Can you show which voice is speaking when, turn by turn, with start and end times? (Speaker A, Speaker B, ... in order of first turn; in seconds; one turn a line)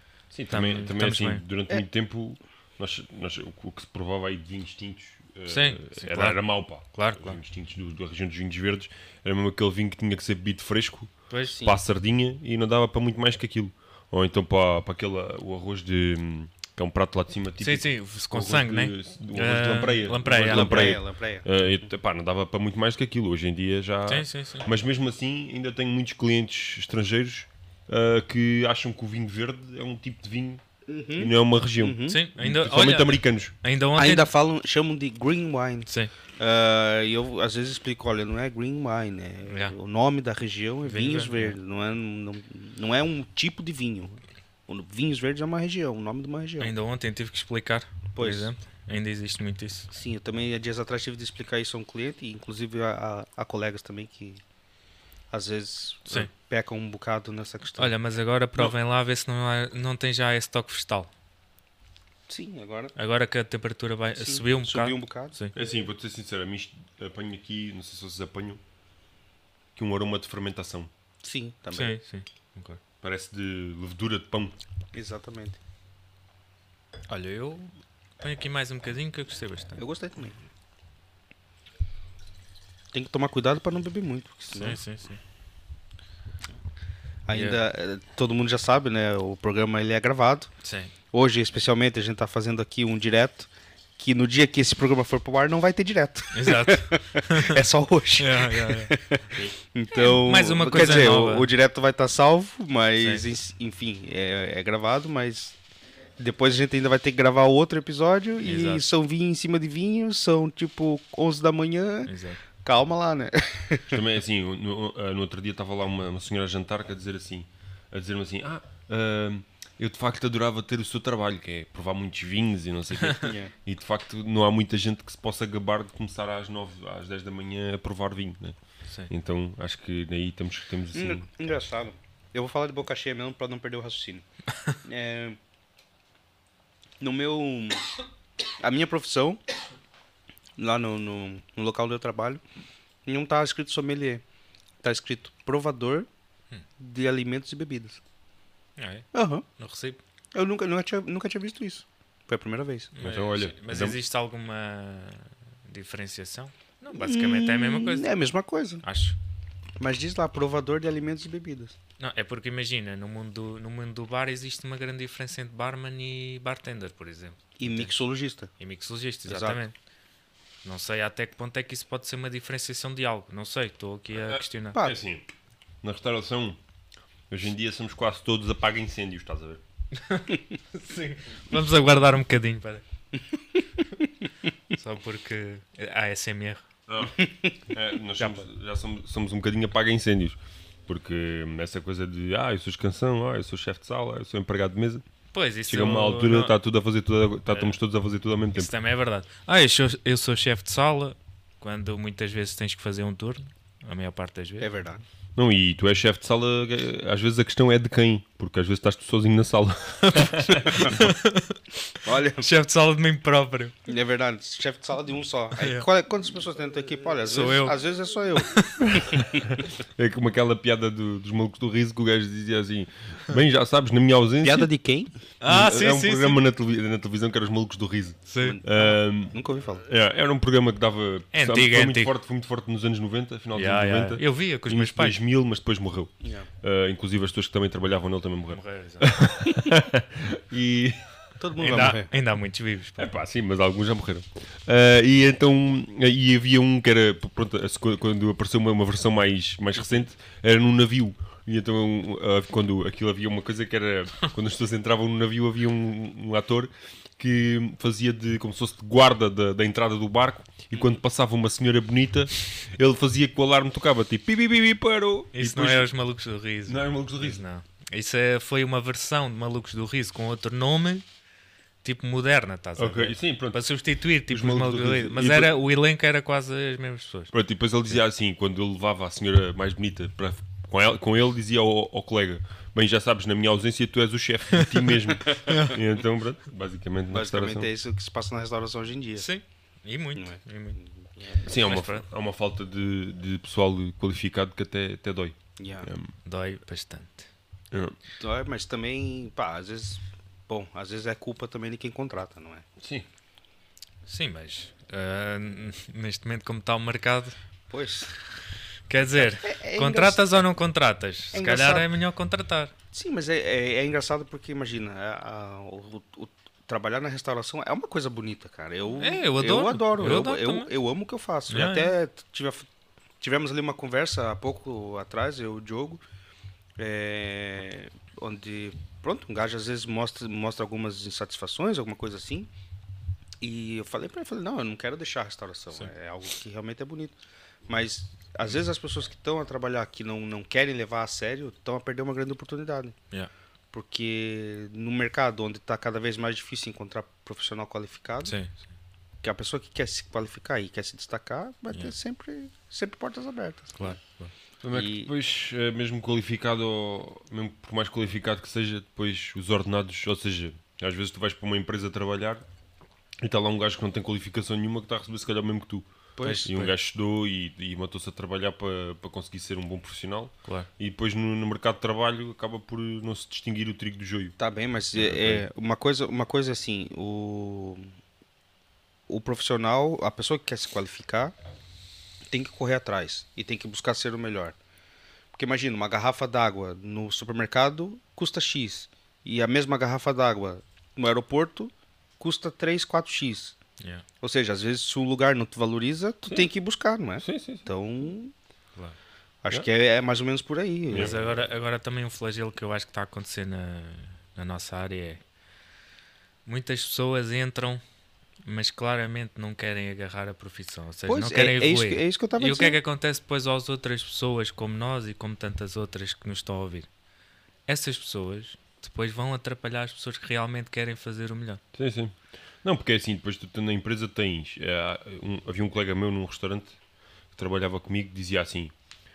Speaker A: 0.3-30.6
Speaker B: 0.5-1.4
Speaker B: 5.5-7.4
Speaker B: 11.3-11.6
Speaker B: 17.6-21.0
Speaker C: 20.4-21.5
Speaker B: 24.1-24.7
Speaker C: 30.9-32.2
Speaker A: 31.1-33.5
Speaker B: 32.1-34.3
Speaker C: 34.0-46.8
Speaker B: 39.5-39.8
Speaker B: 40.9-41.6
Speaker B: 46.6-49.9
Speaker C: 48.1-48.5
Speaker C: 49.9-54.4
Speaker C: 55.3-57.9
Speaker B: 57.8-61.1
Speaker C: 62.3-62.9
Speaker B: 63.0-65.5
Speaker C: 64.2-65.3
Speaker A: 65.5-68.6
Speaker A: 69.8-70.9
Speaker C: 71.2-72.0
Speaker B: 71.7-72.8
Speaker A: 73.0-74.6
Speaker C: 74.9-75.6
Speaker B: 77.1-79.8
Speaker C: 79.8-80.3
Speaker C: 82.9-84.8
Speaker B: 84.5-85.2
Speaker C: 87.3-90.5
Speaker B: 87.3-87.6
Speaker B: 90.6-90.9
Speaker C: 91.1-93.5
Speaker C: 94.0-105.5
Speaker B: 96.3-97.6
Speaker B: 98.2-98.9
Speaker B: 99.9-101.5
Speaker B: 103.0-103.2
Speaker C: 106.2-114.0
Speaker B: 108.4-108.8
Speaker B: 112.0-112.4
Speaker A: 113.9-128.6
Speaker C: 123.2-123.5
Speaker A: 129.1-131.2
Speaker C: 130.9-134.2
Speaker C: 134.8-135.4
Speaker C: 137.0-137.9
Speaker C: 138.6-139.4
Speaker C: 140.6-142.4
Speaker C: 143.1-144.2
Speaker C: 144.8-146.1
Speaker C: 146.8-148.0
Speaker B: 148.8-149.1
Speaker C: 149.1-149.4
Speaker B: 149.6-150.0
Speaker C: 150.3-152.9
Speaker B: 152.9-158.1
Speaker A: 153.0-154.0
Speaker C: 156.9-158.8
Speaker B: 158.8-159.2
Speaker C: 159.8-161.8
Speaker B: 162.0-167.9
Speaker C: 167.6-168.5
Speaker B: 168.6-169.7
Speaker C: 169.2-169.6
Speaker B: 170.6-174.8
Speaker A: 174.3-175.2
Speaker A: 175.8-176.6
Speaker A: 177.3-179.6
Speaker B: 179.9-182.8
Speaker B: 184.7-186.7
Speaker A: 186.9-195.0
Speaker C: 187.2-187.6
Speaker B: 195.3-196.6
Speaker A: 195.7-198.7
Speaker B: 197.5-197.8
Speaker B: 198.6-204.7
Speaker C: 204.6-205.0
Speaker A: 205.3-211.1
Speaker B: 210.0-213.7
Speaker C: 210.6-211.0
Speaker C: 212.0-212.5
Speaker C: 213.9-219.5
Speaker B: 215.6-215.8
Speaker B: 217.3-217.8
Speaker B: 218.5-218.8
Speaker A: 219.4-224.7
Speaker C: 224.4-225.1
Speaker B: 225.4-226.4
Speaker A: 225.4-241.1
Speaker B: 228.3-228.6
Speaker C: 228.4-229.8
Speaker B: 231.3-232.1
Speaker B: 233.6-235.2
Speaker C: 236.2-236.5
Speaker B: 238.5-239.1
Speaker C: 241.4-242.1
Speaker B: 241.6-243.1
Speaker A: 243.0-265.9
Speaker B: 265.3-271.1
Speaker A: 266.7-267.4
Speaker B: 271.8-277.3
Speaker A: 272.8-273.7
Speaker A: 274.3-275.6
Speaker A: 277.3-287.7
Speaker B: 285.5-285.8
Speaker C: 287.1-289.3
Speaker B: 289.2-290.8
Speaker C: 290.2-291.4
Speaker A: 291.4-296.1
Speaker B: 291.6-292.1
Speaker C: 295.6-295.9
Speaker B: 296.2-297.3
Speaker A: 297.7-298.0
Speaker C: 298.2-302.6
Speaker A: 302.8-303.1
Speaker B: 304.1-307.4
Speaker C: 307.7-308.1
Speaker B: 308.9-312.7
Speaker C: 309.2-310.4
Speaker C: 311.3-311.9
Speaker C: 312.9-322.7
Speaker B: 319.0-320.7
Speaker B: 321.5-321.9
Speaker C: 323.2-326.0
Speaker C: 326.8-332.5
Speaker C: 333.4-337.1
Speaker C: 337.7-342.9
Speaker C: 343.7-348.4
Speaker B: 348.2-348.5
Speaker C: 349.2-354.0
Speaker B: 353.8-354.3
Speaker A: 354.6-362.4
Speaker C: 354.7-355.1
Speaker A: 363.2-365.9
Speaker C: 366.2-366.5
Speaker B: 366.2-366.7
Speaker A: 366.4-374.4
Speaker C: 374.4-377.9
Speaker A: 375.0-375.4
Speaker C: 379.1-381.3
Speaker C: 382.3-384.6
Speaker C: 385.3-393.6
Speaker C: 394.2-398.3
Speaker A: 397.2-397.7
Speaker C: 399.4-401.2
Speaker A: 400.9-401.2
Speaker B: 400.9-405.2
Speaker B: 406.4-407.8
Speaker B: 408.4-416.9
Speaker C: 411.1-412.8
Speaker B: 417.7-421.6
Speaker A: 421.7-426.8
Speaker A: 427.3-428.7